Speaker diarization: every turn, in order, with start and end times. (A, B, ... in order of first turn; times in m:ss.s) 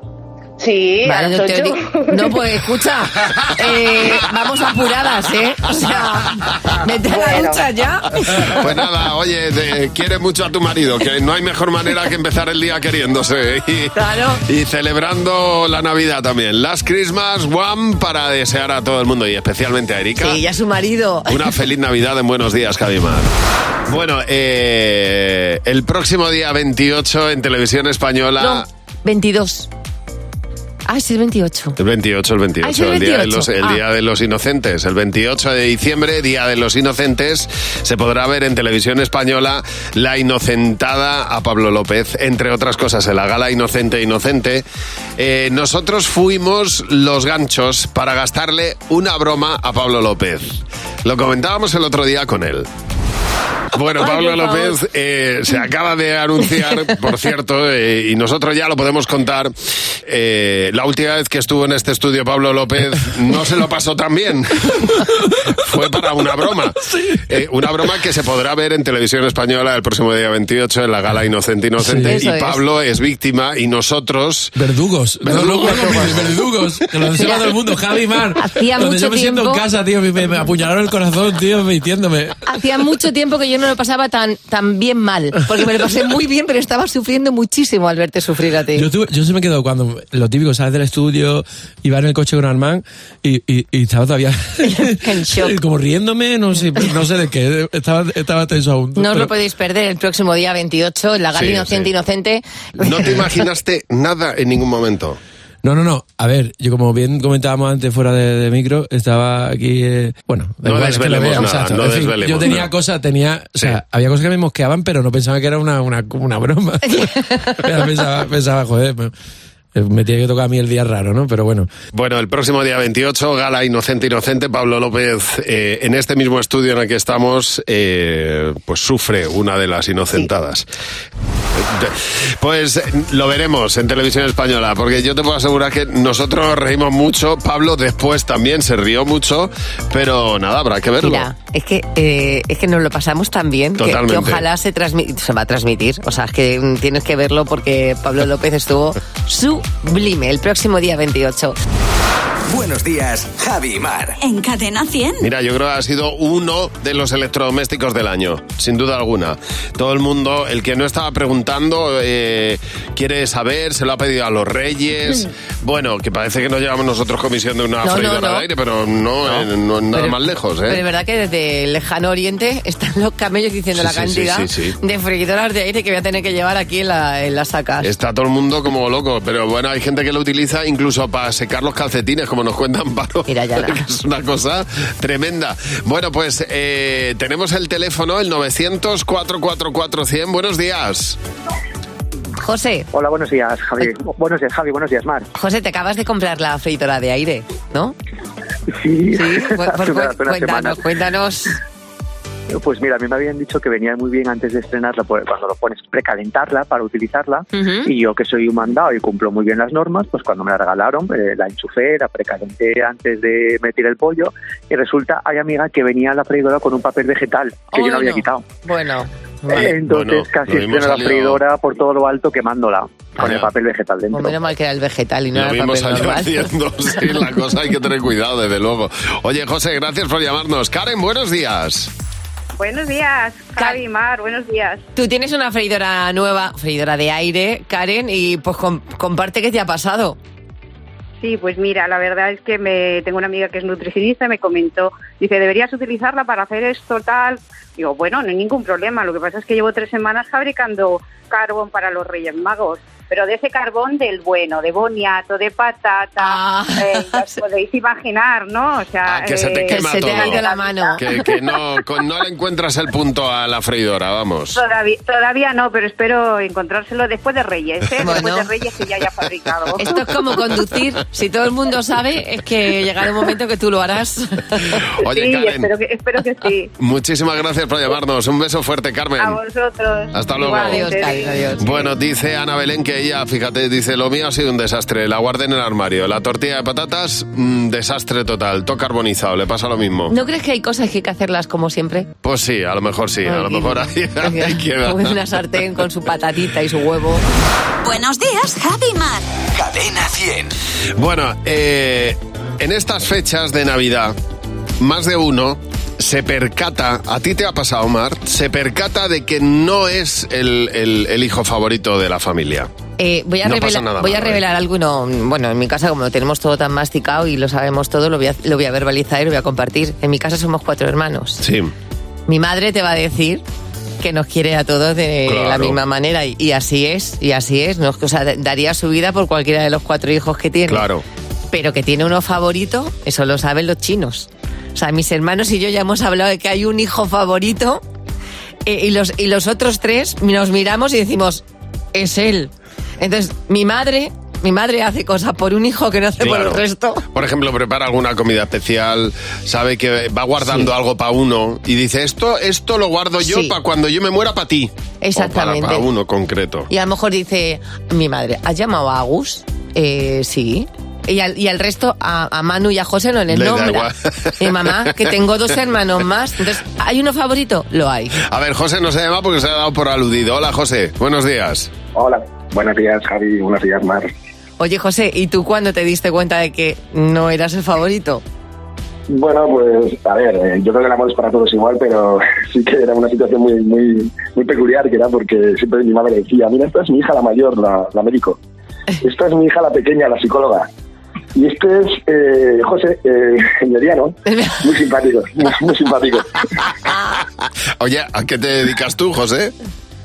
0:00.6-0:02.4 A
0:01.0-0:08.6 B
0:07.1-0:07.7 A
0:08.4-0:20.4 C
0:14.0-0:14.4 B
0:20.2-0:21.4 B
0:21.3-0:23.3 C
0:23.9-0:28.6 C
0:28.4-0:29.7 B
0:30.9-0:31.8 B
0:31.8-0:44.6 C
0:32.6-0:33.8 B
0:45.2-0:52.7 C
0:53.7-1:14.5 C
0:54.0-0:54.8 B
1:11.8-1:12.2 D
1:12.0-1:12.6 B
1:14.6-1:22.4 D
1:15.2-1:16.5 C
1:17.2-1:17.5 B
1:18.4-1:19.6 B
1:22.5-1:28.9 B
1:28.7-1:39.3 D
1:34.6-1:35.6 B
1:39.0-1:43.2 B
1:41.3-1:41.9 C
1:42.8-1:45.2 C
1:45.6-1:59.1 D
1:50.6-1:52.7 C
1:56.8-1:57.6 B
1:59.8-2:01.7 D
2:01.9-2:10.7 C
2:11.5-2:21.3 C
2:21.0-2:31.6 B
2:23.8-2:24.4 C
2:32.5-2:34.2 E
2:34.2-2:35.3 F
2:35.2-2:50.8 C
2:47.8-2:48.5 B
2:49.3-2:57.9 B
2:53.8-2:54.8 C
2:57.8-3:11.2 C
3:03.3-3:03.8 B
3:12.4-3:12.9 B
3:12.9-3:15.3 G
3:15.3-3:18.0 B
3:18.7-3:20.8 G
3:19.1-3:21.6 B
3:22.5-3:38.4 G
3:27.5-3:27.9 B
3:37.7-3:39.8 B
3:39.5-3:41.4 C
3:39.5-3:44.4 G
3:43.2-3:43.5 C
3:44.1-3:46.5 B
3:45.3-3:51.9 C
3:52.6-3:54.8 H
3:55.0-4:00.2 B
4:01.2-4:21.0 H
4:16.2-4:17.4 B
4:19.1-4:20.4 C
4:19.7-4:21.0 B
4:21.0-4:24.6 C
4:24.6-4:30.0 H
4:28.0-4:28.5 B
4:29.8-4:34.8 B
4:35.0-4:35.7 C
4:35.1-4:36.7 H
4:36.8-4:39.4 C
4:39.2-4:41.5 H
4:40.1-4:40.9 C
4:40.4-4:41.8 B
4:41.6-4:50.1 C
4:50.1-4:52.1 B
4:52.2-4:55.2 C
4:53.2-4:57.2 B
4:57.8-4:59.3 F
4:59.6-5:00.5 E
5:01.0-5:04.2 C
5:04.8-5:12.7 C
5:13.0-5:21.4 B
5:13.4-5:14.4 C
5:21.4-5:21.7 C
5:22.3-5:23.4 B
5:24.0-5:30.8 B
5:25.3-5:25.8 C
5:30.7-5:31.0 C
5:31.5-5:37.8 B
5:38.7-5:41.4 B
5:42.0-5:47.0 B
5:46.2-5:46.6 C
5:47.1-5:56.7 C
5:50.4-5:50.7 B
5:53.2-5:53.6 B
5:55.0-5:55.9 B
5:56.7-6:03.9 B
6:03.3-6:04.9 C
6:04.4-6:08.2 B
6:08.2-6:11.7 C
6:11.9-6:14.1 I
6:14.6-6:18.2 B
6:19.1-6:28.4 I
6:29.0-6:30.7 I
6:31.4-6:36.7 I
6:34.3-6:34.6 B
6:37.8-6:39.5 C